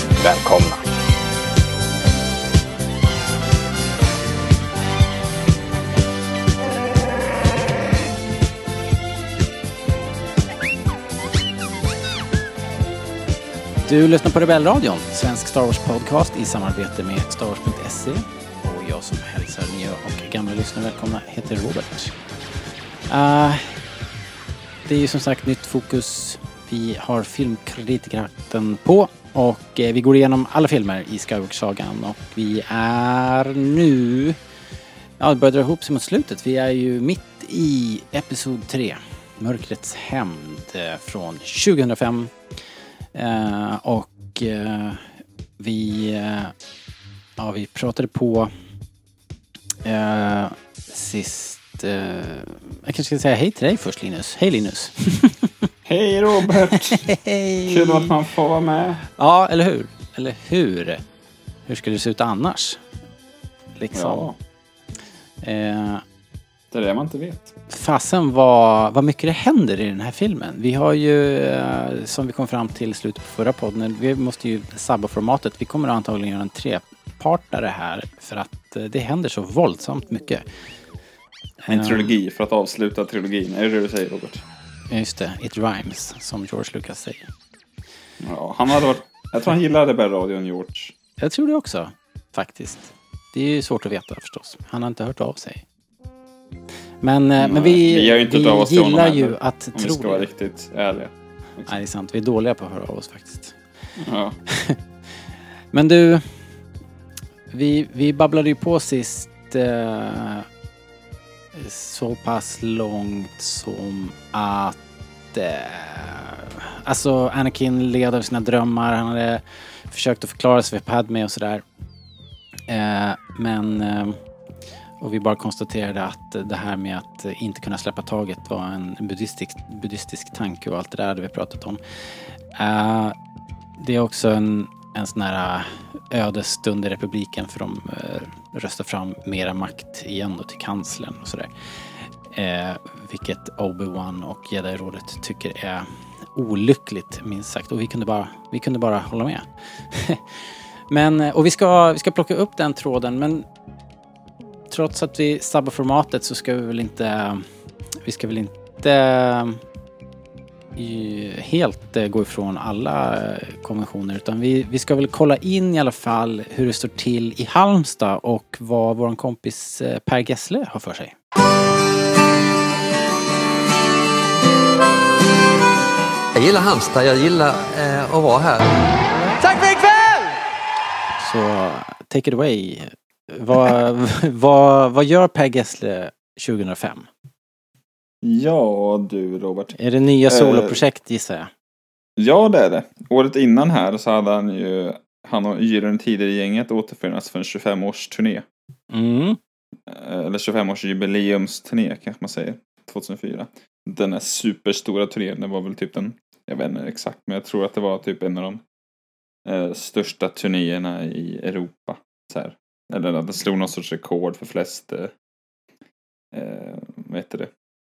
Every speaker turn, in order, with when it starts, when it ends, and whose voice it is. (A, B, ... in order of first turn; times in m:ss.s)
0:00.2-0:00.8 A
0:13.8-0:22.2 A
0:23.1-0:23.8 A
0:24.8-0:34.4 A
0:35.2-0:42.3 A
0:43.1-0:46.5 A
0:47.4-0:48.5 A
0:49.8-0:55.5 A
0:55.8-0:57.0 B
0:56.7-0:58.1 A
0:57.7-0:59.0 B
0:59.1-1:01.0 A
1:01.7-1:02.8 A
1:03.8-1:04.3 A
1:03.9-1:04.3 B
1:05.4-1:06.0 A
1:06.7-1:07.5 B
1:07.7-1:20.4 A
1:21.6-1:22.1 A
1:21.7-1:24.4 B
1:24.9-1:27.3 A
1:28.2-1:30.9 B
1:31.2-1:35.6 A
1:37.0-1:40.3 A
1:37.4-1:41.7 B
1:41.7-1:43.6 A
1:44.0-1:44.4 B
1:44.5-1:44.8 A
1:45.7-1:46.4 A
1:47.5-1:50.4 A
1:51.5-1:54.8 A
1:55.3-2:01.6 A
2:02.7-2:04.2 A
2:05.0-2:11.8 A
2:12.5-2:13.2 A
2:13.8-2:33.4 A
2:34.7-2:37.5 A
2:38.0-2:39.6 A
2:40.8-2:51.1 A
2:56.3-3:00.3 C
3:01.2-3:07.1 A
3:08.2-3:09.8 B
3:09.8-3:11.5 A
3:10.3-3:10.8 B
3:12.2-3:18.4 B
3:18.9-3:19.4 A
3:19.9-3:28.6 B
3:29.4-3:35.1 B
3:36.3-3:37.5 B